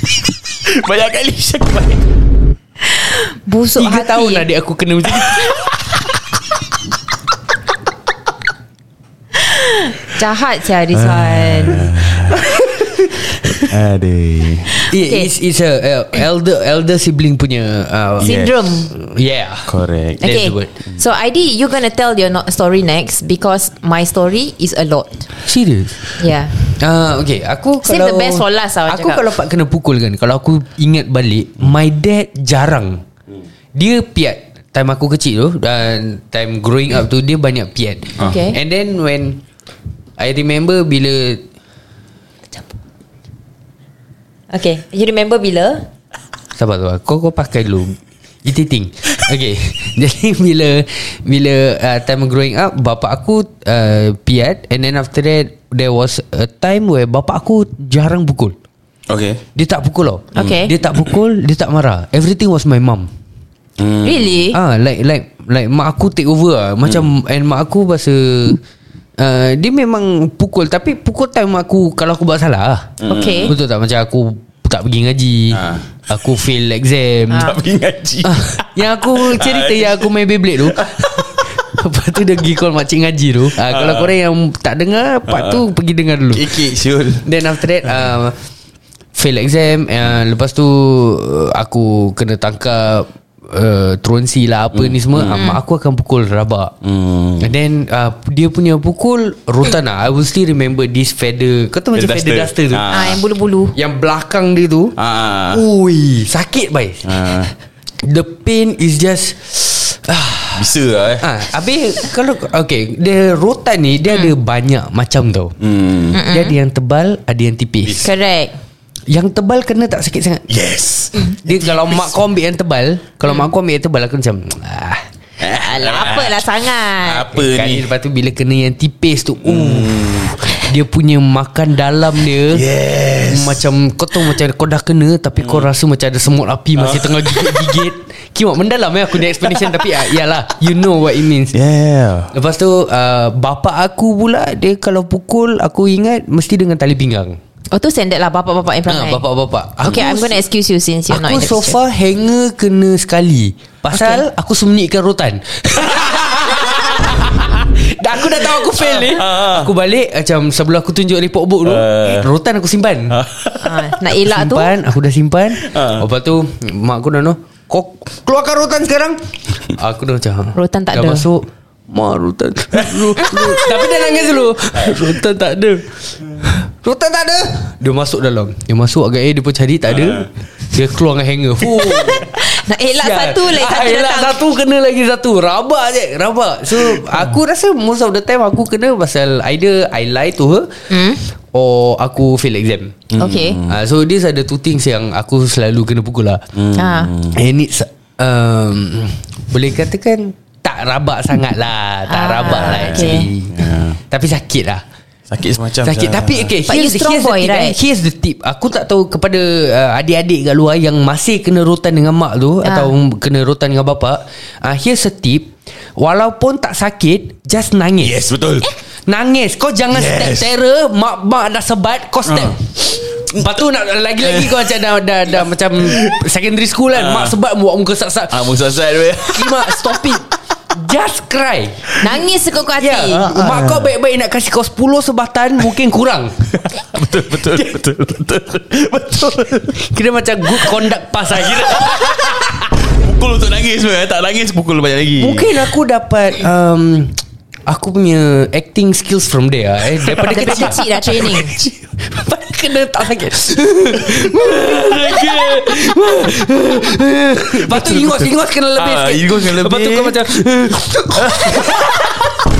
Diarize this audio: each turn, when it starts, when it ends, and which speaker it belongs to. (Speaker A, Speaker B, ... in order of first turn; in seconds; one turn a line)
Speaker A: 0.7-2.1
Speaker B: 3.0-4.5
Speaker C: 3.8-5.6
Speaker A: 5.2-5.7
Speaker B: 9.4-11.9
Speaker A: 10.9-12.4
Speaker C: 12.4-13.6
Speaker A: 13.5-14.8
Speaker C: 14.9-19.7
Speaker B: 14.9-15.3
Speaker B: 18.2-18.9
Speaker A: 18.2-18.5
Speaker A: 19.7-21.0
Speaker C: 20.2-20.7
Speaker B: 20.2-25.2
Speaker C: 25.4-26.0
Speaker B: 26.2-26.5
Speaker C: 26.7-33.0
Speaker B: 27.8-29.2
Speaker C: 33.7-39.4
Speaker B: 38.2-38.6
Speaker C: 40.2-41.5
Speaker B: 44.5-45.9
Speaker C: 46.5-58.5
Speaker A: 59.1-59.4
Speaker C: 59.5-63.1
Speaker B: 60.3-60.7
Speaker A: 63.8-64.4
Speaker B: 64.0-64.6
Speaker C: 64.5-68.6
Speaker C: 69.2-77.5
Speaker A: 73.0-73.5
Speaker B: 73.1-73.5
Speaker A: 75.5-75.9
Speaker B: 77.3-77.5
Speaker A: 77.4-80.1
Speaker C: 78.2-86.6
Speaker A: 80.6-81.5
Speaker A: 83.6-84.1
Speaker A: 85.3-85.6
Speaker A: 86.3-87.3
Speaker C: 87.2-88.4
Speaker C: 89.1-96.7
Speaker A: 94.7-95.5
Speaker B: 95.3-95.6
Speaker A: 96.8-97.5
Speaker C: 97.4-102.9
Speaker A: 101.9-103.2
Speaker B: 102.9-103.8
Speaker C: 103.7-105.0
Speaker A: 105.0-105.6
Speaker C: 105.5-107.1
Speaker A: 107.0-107.5
Speaker C: 108.0-115.5
Speaker A: 110.5-111.3
Speaker A: 115.6-116.2
Speaker B: 116.1-116.5
Speaker C: 116.2-118.1
Speaker A: 117.8-118.1
Speaker B: 118.0-118.5
Speaker C: 119.1-120.5
Speaker A: 120.5-122.1
Speaker C: 121.4-125.0
Speaker A: 125.4-127.9
Speaker B: 125.5-127.4
Speaker C: 127.3-132.7
Speaker A: 129.4-130.3
Speaker A: 132.5-133.6
Speaker C: 133.2-141.5
Speaker A: 135.4-135.7
Speaker A: 136.8-137.8
Speaker A: 141.5-142.3
Speaker C: 142.3-147.4
Speaker B: 147.7-149.2
Speaker C: 148.9-150.4
Speaker B: 149.8-151.8
Speaker C: 151.1-163.2
Speaker B: 153.9-154.2
Speaker A: 158.7-159.7
Speaker A: 161.6-162.3
Speaker A: 163.1-163.8
Speaker B: 163.6-164.7
Speaker C: 164.1-182.3
Speaker A: 165.6-166.0
Speaker B: 170.5-171.3
Speaker A: 172.8-173.1
Speaker B: 173.2-174.4
Speaker A: 179.9-180.2
Speaker B: 182.0-184.4
Speaker C: 183.0-190.8
Speaker B: 190.9-191.2
Speaker C: 191.5-193.0
Speaker A: 193.1-193.8
Speaker B: 193.2-193.6
Speaker C: 193.6-196.4
Speaker A: 196.5-197.4
Speaker B: 196.7-197.1
Speaker C: 197.3-204.8
Speaker B: 202.1-203.3
Speaker A: 202.6-204.0
Speaker A: 205.3-206.6
Speaker C: 205.8-218.2
Speaker B: 206.7-207.8
Speaker B: 212.6-212.9
Speaker A: 218.0-218.7
Speaker C: 219.1-228.5
Speaker A: 219.9-220.5
Speaker A: 222.3-222.6
Speaker A: 223.2-223.6
Speaker A: 224.2-224.7
Speaker A: 225.8-226.2
Speaker A: 226.9-227.4
Speaker A: 228.3-230.2
Speaker C: 229.2-231.9
Speaker B: 232.0-233.3
Speaker C: 232.8-236.4
Speaker A: 233.1-233.9
Speaker A: 236.6-239.9
Speaker C: 239.8-242.6
Speaker A: 241.4-245.6
Speaker C: 245.2-250.8
Speaker A: 250.1-250.7
Speaker B: 250.2-251.5
Speaker A: 251.2-251.7
Speaker C: 252.0-262.1
Speaker A: 254.0-255.7
Speaker A: 257.5-260.2
Speaker A: 261.1-262.1